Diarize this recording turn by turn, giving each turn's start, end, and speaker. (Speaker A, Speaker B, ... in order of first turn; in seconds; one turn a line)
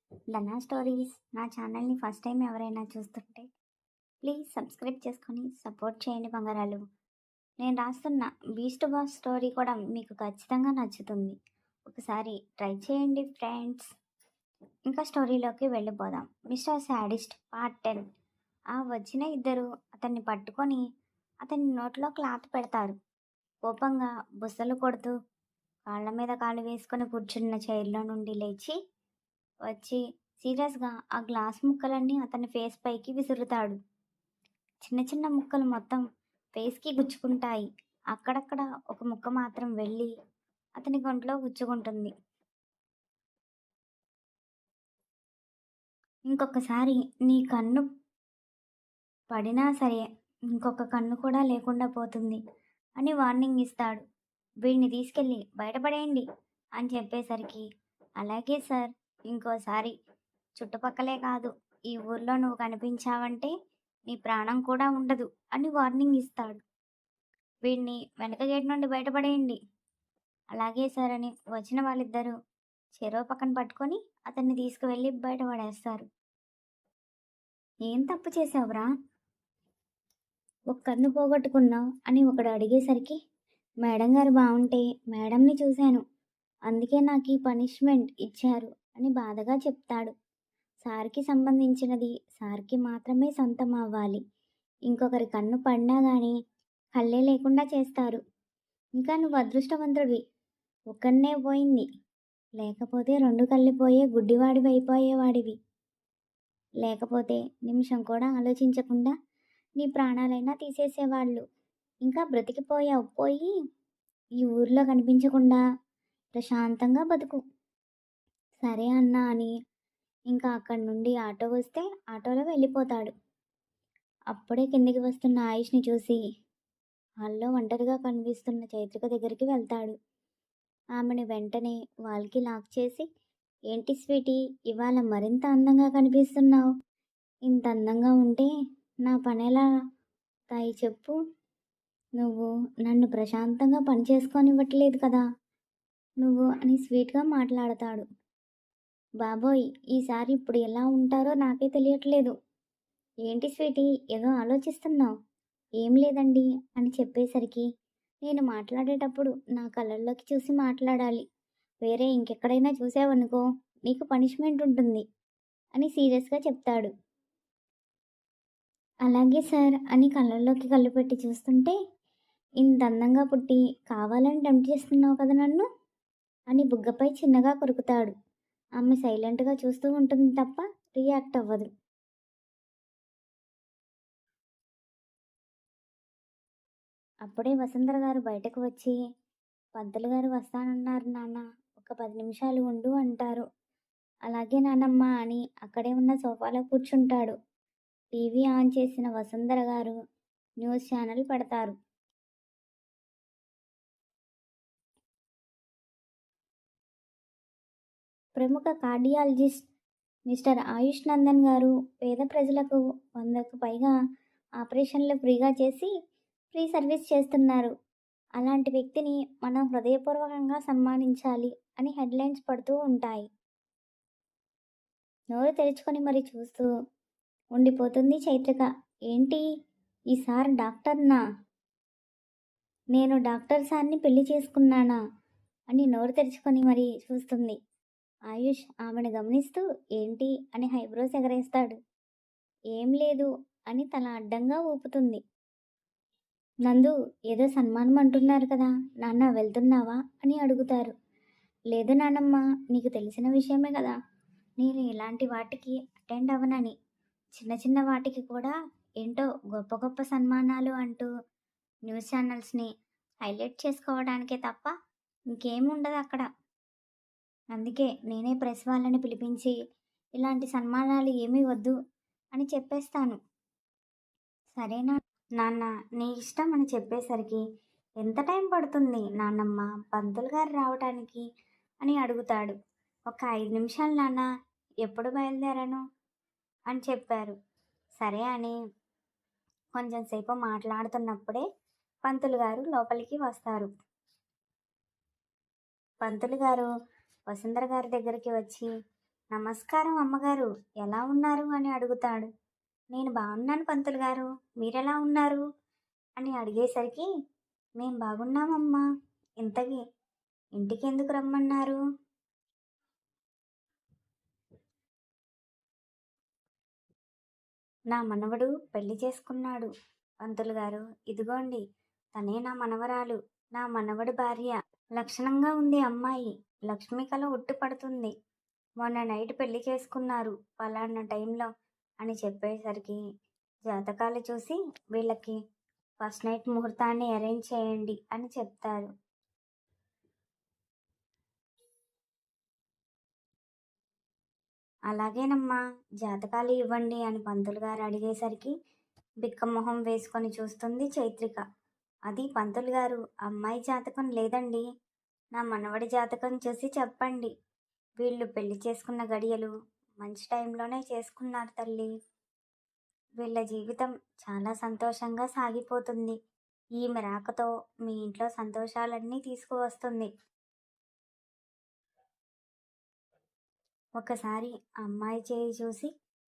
Speaker A: 0.3-3.5
Speaker A: 4.2-6.8
Speaker A: 7.6-11.3
Speaker A: 11.9-13.9
Speaker A: 14.9-18.0
Speaker A: 18.7-20.8
Speaker A: 21.4-22.9
Speaker A: 23.6-25.1
Speaker A: 25.9-28.8
Speaker A: 29.7-33.8
Speaker A: 34.8-36.0
Speaker A: 36.6-40.1
Speaker A: 40.8-42.1
Speaker A: 46.3-47.8
Speaker A: 49.3-50.0
Speaker A: 50.5-52.4
Speaker A: 53.0-54.0
Speaker A: 54.6-56.2
Speaker A: 56.8-57.6
Speaker A: 58.2-59.9
Speaker A: 60.6-63.5
Speaker A: 64.1-66.6
Speaker A: 67.6-69.6
Speaker A: 70.5-72.3
Speaker A: 73.0-76.1
Speaker A: 77.9-78.8
Speaker A: 80.7-83.2
Speaker A: 83.8-86.0
Speaker A: 86.7-90.1
Speaker A: 90.8-94.2
Speaker A: 94.9-96.3
Speaker A: 96.9-98.2
Speaker A: 99.0-100.2
Speaker A: 100.9-101.9
Speaker A: 102.6-105.5
Speaker A: 106.8-109.1
Speaker A: 109.8-111.4
Speaker A: 112.0-113.5
Speaker A: 114.4-115.6
Speaker A: 116.4-117.4
Speaker A: 118.6-119.5
Speaker A: 120.3-123.1
Speaker A: 124.3-126.2
Speaker A: 127.2-129.9
Speaker A: 131.0-133.1
Speaker A: 133.7-136.7
Speaker A: 137.5-138.5
Speaker A: 139.0-139.6
Speaker A: 140.5-141.1
Speaker A: 142.2-145.2
Speaker A: 146.2-148.1
Speaker A: 149.2-152.3
Speaker A: 153.3-155.1
Speaker A: 155.8-157.7
Speaker A: 158.2-161.2
Speaker A: 161.8-165.0
Speaker A: 165.8-166.9
Speaker A: 169.1-171.7
Speaker A: 172.6-175.7
Speaker A: 176.5-178.1
Speaker A: 178.8-181.7
Speaker A: 187.2-188.9
Speaker A: 189.8-193.4
Speaker A: 194.3-197.3
Speaker A: 198.2-199.9
Speaker A: 200.6-201.8
Speaker A: 208.3-209.6
Speaker A: 210.3-213.9
Speaker A: 214.6-215.9
Speaker A: 216.5-217.7
Speaker A: 218.4-223.3
Speaker A: 225.3-226.7
Speaker A: 227.6-229.4
Speaker A: 230.1-231.2
Speaker A: 232.9-235.0
Speaker A: 235.7-237.6
Speaker A: 238.3-241.8
Speaker A: 242.8-245.2
Speaker A: 246.7-250.9
Speaker A: 251.7-253.9
Speaker A: 254.6-256.7
Speaker A: 257.4-261.1
Speaker A: 261.9-262.7
Speaker A: 263.2-264.7
Speaker A: 265.3-266.2
Speaker A: 267.5-269.5
Speaker A: 270.2-271.7
Speaker A: 272.3-273.2
Speaker A: 274.6-277.4
Speaker A: 278.0-281.2
Speaker A: 281.8-282.5
Speaker A: 283.1-284.2
Speaker A: 284.8-285.8
Speaker A: 286.7-287.4
Speaker A: 288.0-288.5
Speaker A: 289.7-291.4
Speaker A: 292.0-293.7
Speaker A: 296.0-296.7
Speaker A: 297.3-298.7
Speaker A: 299.3-302.3
Speaker A: 302.9-305.4
Speaker A: 306.2-307.1
Speaker A: 307.8-308.8
Speaker A: 309.4-309.8
Speaker A: 310.6-311.8
Speaker A: 317.9-319.7
Speaker A: 320.2-321.6
Speaker A: 322.1-328.1
Speaker A: 328.8-331.5
Speaker A: 332.0-333.0
Speaker A: 333.7-335.4
Speaker A: 336.0-338.9
Speaker A: 344.9-348.5
Speaker A: 349.2-351.4
Speaker A: 352.1-354.6
Speaker A: 355.3-357.3
Speaker A: 358.0-361.9
Speaker A: 363.2-366.1
Speaker A: 366.8-370.1
Speaker A: 374.0-375.9